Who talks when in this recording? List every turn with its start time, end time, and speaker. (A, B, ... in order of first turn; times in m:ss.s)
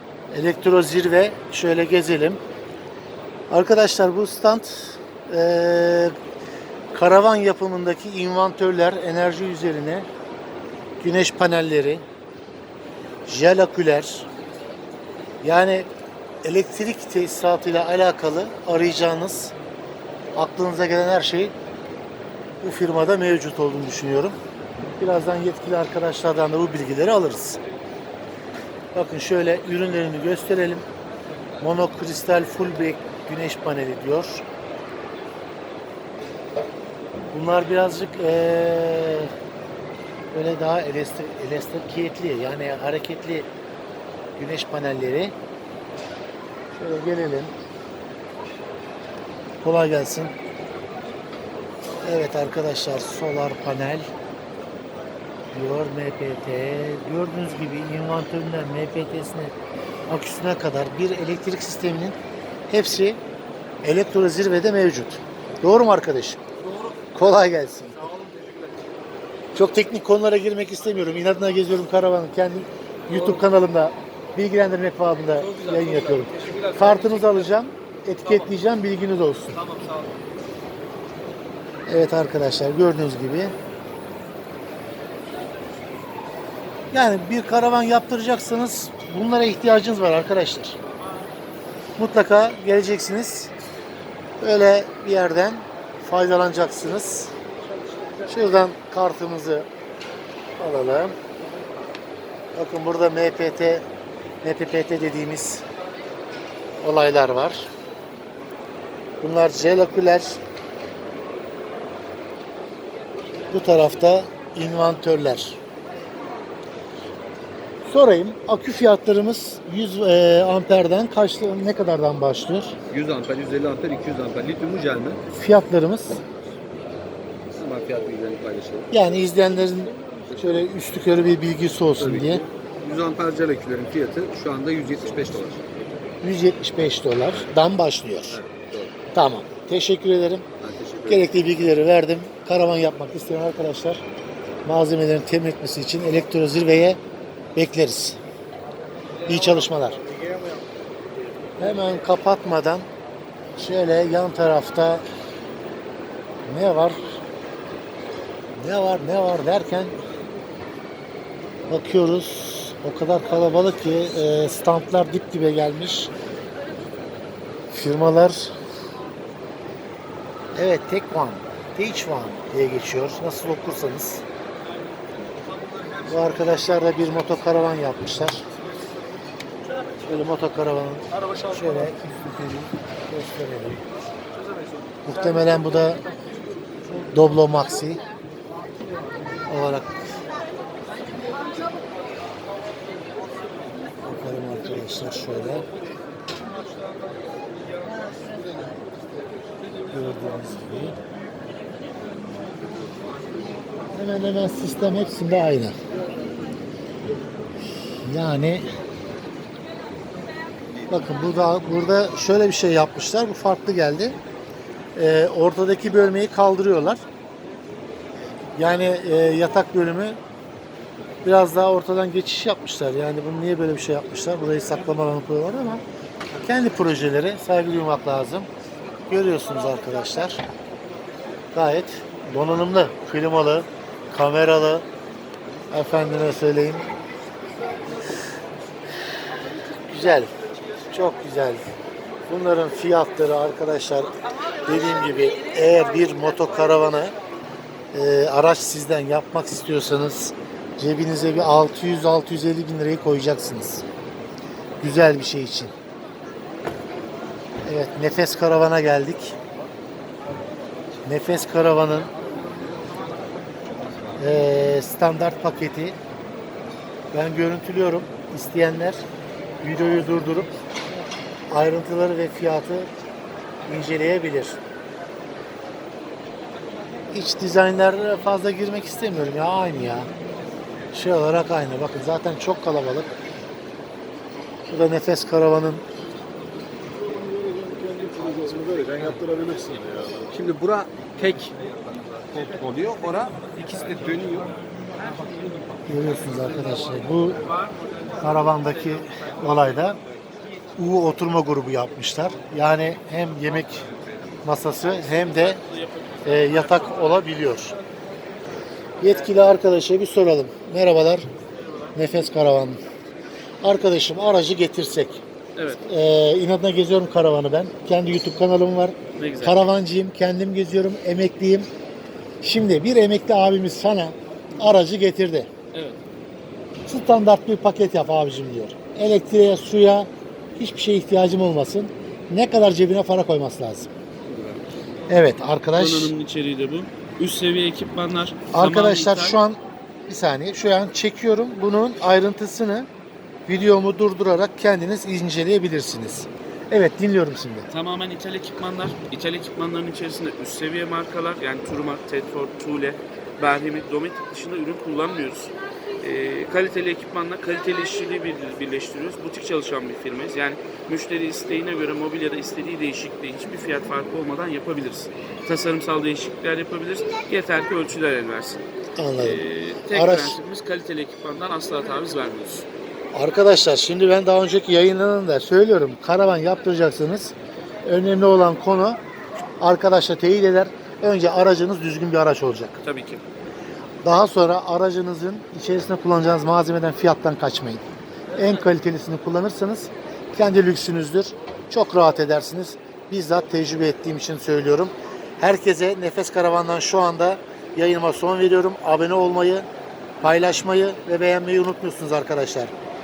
0:00.3-0:02.4 A
0:03.5-0:06.2 A
0:06.9-0:10.1 A
0:11.0-0:12.0 A
0:13.3-0:14.3 A
0:15.4-0:15.9 A
0:16.4-0:19.5 A
0:20.4-0:21.5 A
0:22.6-0:24.4 A
0:24.9-0:27.6 A
0:28.9-0:30.8 A
0:31.6-0:34.4 A
0:37.3-0:39.3 A
0:40.3-0:43.5 A
0:44.4-0:45.3 A
0:46.8-0:47.5 A
0:49.6-0:50.4 A
0:52.0-0:54.1 A
0:55.5-0:59.5 A
1:00.1-1:02.2 A
1:02.7-1:03.2 A
1:03.8-1:06.4 A
1:07.1-1:08.1 A
1:09.5-1:19.7 A
1:15.4-1:16.6 B
1:21.9-1:23.5 A
1:26.9-1:30.8 A
1:32.0-1:33.5 A
1:34.4-1:37.3 A
1:38.3-1:39.7 A
1:40.6-1:41.1 A
1:42.6-1:43.8 A
1:44.4-1:45.6 A
1:46.8-1:47.7 A
1:49.2-1:50.4 A
1:53.5-1:55.6 A
1:57.9-2:02.7 A
2:02.9-2:05.2 B
2:05.3-2:06.2 A
2:07.5-2:08.9 B
2:08.9-2:12.4 A
2:10.1-2:10.7 B
2:12.0-2:15.8 B
2:16.2-2:18.4 A
2:17.3-2:17.5 B
2:18.3-2:19.0 B
2:19.1-2:20.5 A
2:20.6-2:21.4 B
2:21.1-2:24.0 A
2:24.7-2:27.0 A
2:27.6-2:28.2 A
2:29.3-2:30.0 A
2:30.2-2:30.5 B
2:31.6-2:32.9 A
2:33.6-2:35.0 A
2:36.5-2:37.0 A
2:38.5-2:39.9 A
2:41.7-2:46.1 A
2:47.7-2:48.5 A
2:50.6-2:54.2 A
2:56.1-2:58.4 A
3:00.0-3:03.8 A
3:05.0-3:06.0 A
3:06.9-3:08.0 A
3:09.5-3:10.1 A
3:14.0-3:15.7 A
3:19.9-3:21.0 A
3:23.9-3:25.8 A
3:28.0-3:28.7 A
3:30.9-3:34.2 A
3:35.0-3:37.0 A
3:38.6-3:40.2 A
3:41.2-3:45.8 A
3:46.4-3:48.5 A
3:49.1-3:50.4 A
3:51.5-3:54.8 A
3:55.7-3:56.9 A
3:59.9-4:00.3 A
4:00.9-4:01.6 A
4:02.3-4:04.1 A
4:04.6-4:07.2 A
4:07.9-4:13.8 A
4:14.8-4:15.7 A
4:17.6-4:19.4 A
4:21.0-4:22.1 A
4:24.2-4:26.0 A
4:27.1-4:29.0 A
4:29.6-4:30.5 A
4:31.5-4:32.9 A
4:33.7-4:34.6 A
4:37.1-4:40.1 A
4:40.9-4:43.1 A
4:44.7-4:45.8 A
4:47.6-4:51.5 B
4:52.3-4:54.5 B
4:55.9-4:57.4 A
4:58.2-5:00.0 A
4:58.6-4:59.2 C
5:00.8-5:03.9 A
5:04.4-5:05.6 A
5:05.0-5:07.3 C
5:06.2-5:07.8 A
5:09.0-5:11.3 A
5:12.0-5:12.8 A
5:13.6-5:15.2 A
5:15.8-5:21.7 A
5:19.2-5:19.6 C
5:22.4-5:25.5 A
5:25.7-5:26.0 C
5:26.9-5:33.9 A
5:34.3-5:34.6 C
5:35.1-5:36.1 A
5:35.8-5:39.4 C
5:38.5-5:42.9 A
5:43.5-5:47.7 A
5:47.7-6:08.6 C
6:09.0-6:10.4 A
6:09.2-6:12.7 C
6:13.1-6:17.3 A
6:17.8-6:19.0 A
6:19.6-6:22.8 A
6:22.8-6:23.2 C
6:24.0-6:27.8 A
6:28.4-6:39.7 A
6:40.2-6:42.7 A